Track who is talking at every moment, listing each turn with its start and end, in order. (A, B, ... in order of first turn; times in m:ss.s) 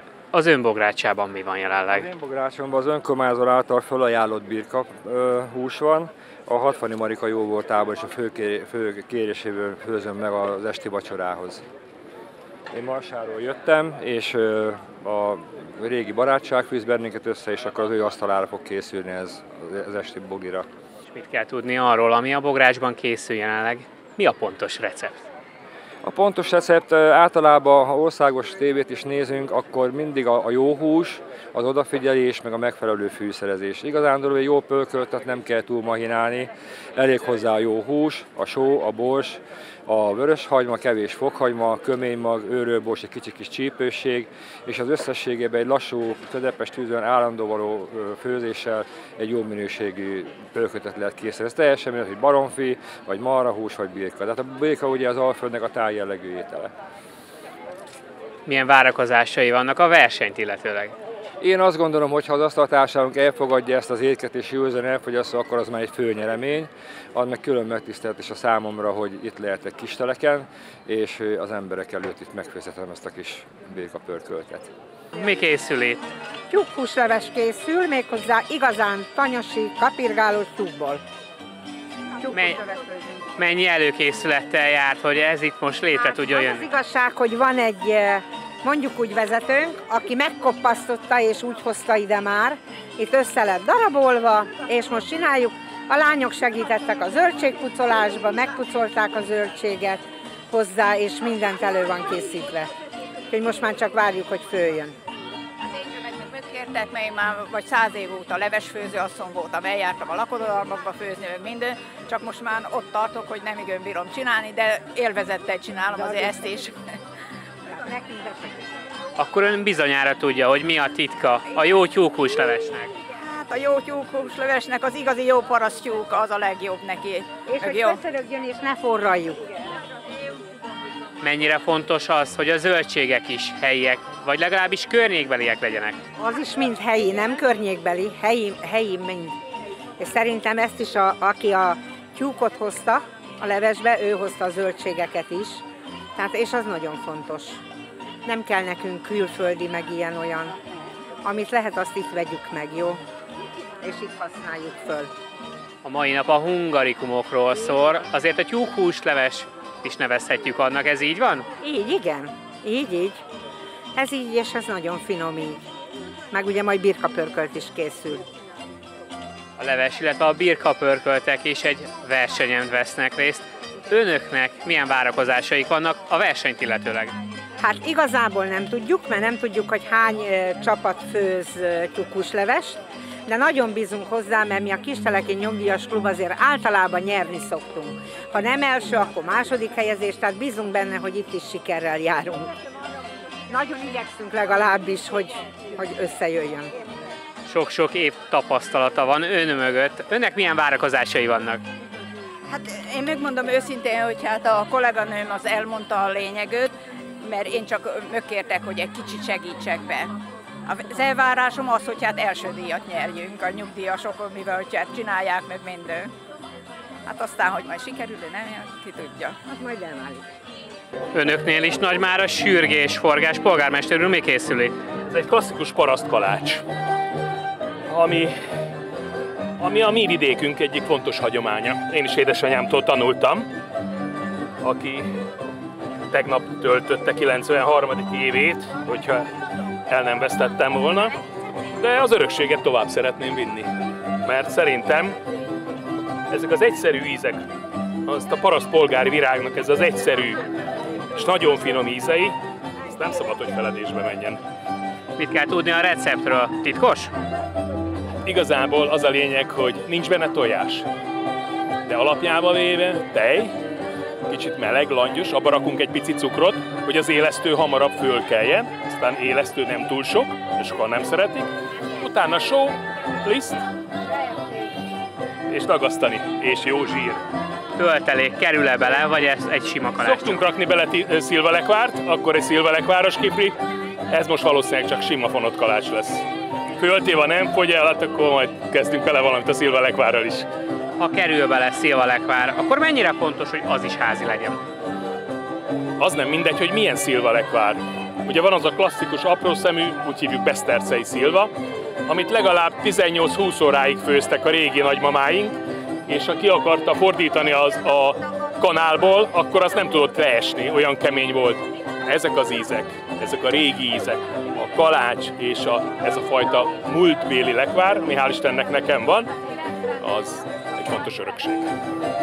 0:00.3-0:02.1 A
0:01.9-0:11.6 B
0:12.7-0:20.7 B
0:21.1-0:25.3 A
0:26.0-0:56.7 B
0:58.5-1:01.0 A
1:01.4-1:14.7 B
1:15.1-1:16.1 A
1:16.5-1:21.0 C
1:22.2-1:22.9 C
1:22.3-1:22.6 A
1:23.4-1:26.7 A
1:26.0-1:42.7 C
1:43.3-1:45.0 C
1:45.8-1:56.7 D
1:56.0-1:56.4 C
1:57.8-1:58.5 C
1:59.2-2:02.9 A
2:03.1-2:08.0 D
2:07.5-2:09.4 C
2:11.2-2:16.0 A
2:16.2-2:19.4 C
2:20.0-2:25.6 C
2:26.2-2:27.6 C
2:28.3-2:30.5 C
2:31.2-2:33.0 C
2:33.8-2:35.1 C
2:35.8-2:41.5 A
2:41.6-2:43.2 C
2:44.0-2:45.6 C
2:46.3-2:48.3 C
2:49.6-2:57.2 A
2:57.6-3:12.5 C
3:13.5-3:16.7 C
3:17.5-3:21.6 A
3:22.5-3:30.1 D
3:30.7-3:36.1 D
3:37.1-3:39.4 D
3:39.5-3:40.2 C
3:41.1-3:44.8 A
3:45.1-3:46.6 E
3:47.9-3:48.4 E
3:49.6-3:53.5 E
3:54.6-3:55.1 E
3:56.1-3:59.3 E
3:59.9-4:01.1 E
4:01.8-4:03.7 E
4:04.2-4:05.2 E
4:06.3-4:07.4 E
4:08.1-4:10.4 E
4:11.2-4:12.4 E
4:12.9-4:14.4 E
4:15.2-4:17.1 A
4:18.3-4:20.9 E
4:21.9-4:23.6 E
4:24.3-4:33.6 E
4:35.5-4:37.2 E
4:37.8-4:40.4 A
4:40.0-4:43.6 E
4:44.1-4:46.2 E
4:46.8-4:50.5 E
4:51.0-4:54.6 A
4:56.0-5:01.5 E
5:02.1-5:19.3 E
5:20.0-5:21.7 E